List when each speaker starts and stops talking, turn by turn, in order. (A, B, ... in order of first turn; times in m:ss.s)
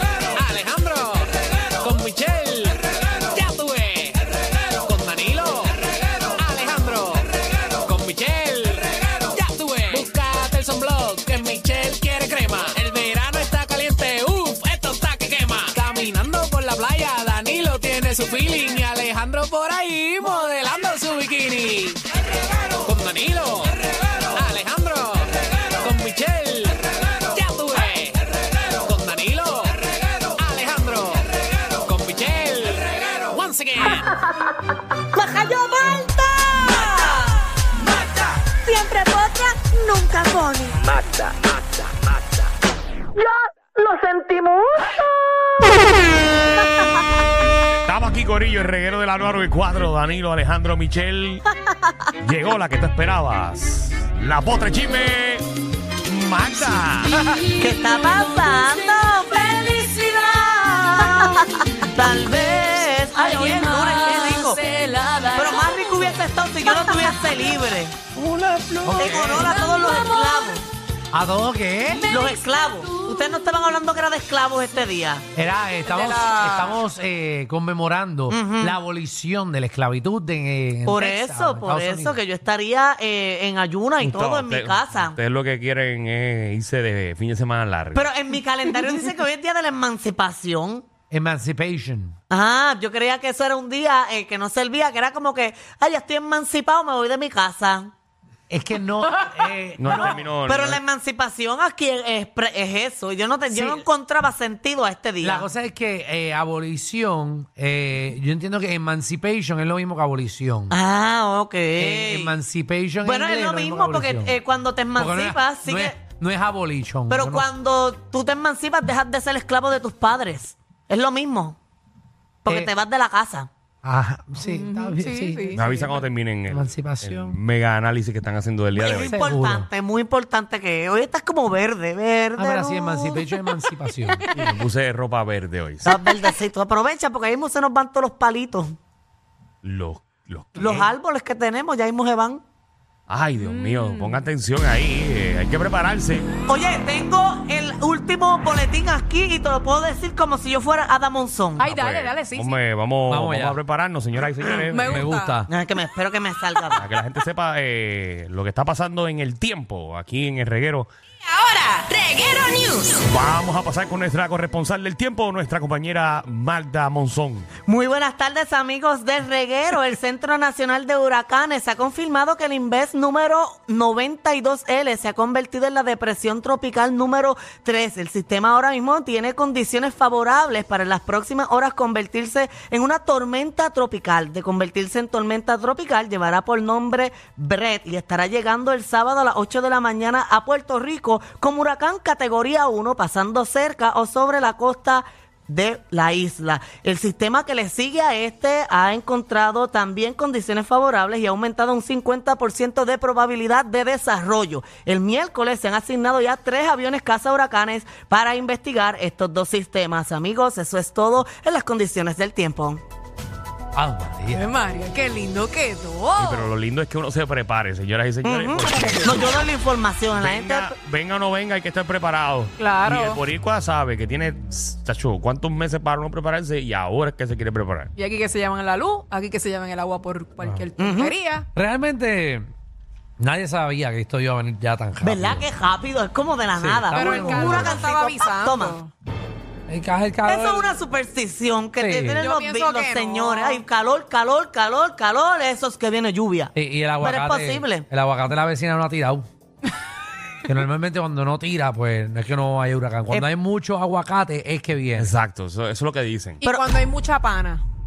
0:00.3-0:04.2 A
0:00.5-0:00.9 B
0:03.3-0:03.6 B
0:04.8-0:05.9 A
0:04.9-0:05.3 B
0:06.4-0:22.0 A
0:07.9-0:08.2 B
0:10.4-0:16.3 B
0:21.1-0:21.7 B
0:22.8-0:28.2 A
0:28.8-0:31.3 A
0:31.8-0:34.1 A
0:35.1-0:37.3 C
0:38.6-0:41.1 C
0:43.2-0:44.8 C
0:47.8-0:51.4 D
0:52.2-0:57.3 D
0:57.6-1:04.6 C
0:58.4-0:59.0 E
1:03.3-1:06.0 F
1:03.4-1:05.5 E
1:05.3-1:08.0 C
1:06.6-1:07.0 F
1:08.1-1:09.5 D
1:08.8-1:09.6 B
1:09.0-1:10.6 C
1:09.6-1:10.3 F
1:11.1-1:12.1 B
1:12.0-1:15.2 C
1:12.1-1:13.2 F
1:15.3-1:22.2 B
1:15.9-1:16.4 E
1:16.0-1:16.7 F
1:18.3-1:18.8 C
1:20.8-1:25.2 C
1:24.0-1:28.1 D
1:27.9-1:30.8 C
1:31.1-1:32.1 B
1:32.3-1:37.9 C
1:38.5-1:40.2 B
1:39.8-1:40.8 D
1:39.8-1:45.5 C
1:43.5-1:43.8 B
1:45.2-1:50.7 B
1:50.7-1:52.4 C
1:51.8-1:54.4 B
1:53.0-1:56.0 C
1:55.0-1:57.5 B
1:57.1-2:01.6 C
2:02.4-2:03.5 C
2:02.5-2:02.7 B
2:03.8-2:05.8 B
2:04.6-2:04.9 F
2:04.6-2:05.6 E
2:05.5-2:09.2 D
2:06.5-2:07.4 B
2:08.8-2:13.3 C
2:09.0-2:09.7 B
2:12.4-2:14.3 B
2:14.3-2:16.0 D
2:15.8-2:18.7 C
2:19.6-2:20.9 D
2:20.6-2:22.4 C
2:23.1-2:26.4 D
2:26.4-2:31.7 C
2:31.6-2:35.1 D
2:32.0-2:32.4 E
2:33.1-2:33.6 B
2:34.7-2:35.5 B
2:35.0-2:35.4 E
2:35.5-2:36.8 C
2:36.7-2:40.9 D
2:41.2-2:43.0 F
2:41.4-2:41.9 E
2:43.0-2:47.5 D
2:47.7-3:32.8 C
3:33.7-3:34.5 B
3:34.3-3:36.2 E
3:35.2-3:36.1 F
3:36.2-3:39.4 D
3:38.2-3:40.7 C
3:40.1-3:47.9 D
3:42.6-3:43.0 E
3:48.0-3:51.4 E
3:50.8-3:51.1 C
3:51.5-3:52.5 B
3:53.2-3:55.4 B
3:55.0-3:58.8 C
3:56.6-3:57.8 B
3:57.0-3:58.6 E
3:58.2-3:58.9 F
3:59.7-4:00.7 B
4:00.2-4:07.8 C
4:01.8-4:02.3 B
4:02.2-4:03.6 E
4:06.5-4:09.3 B
4:10.4-4:15.1 B
4:15.0-4:16.4 D
4:16.4-4:16.7 C
4:16.4-4:17.6 E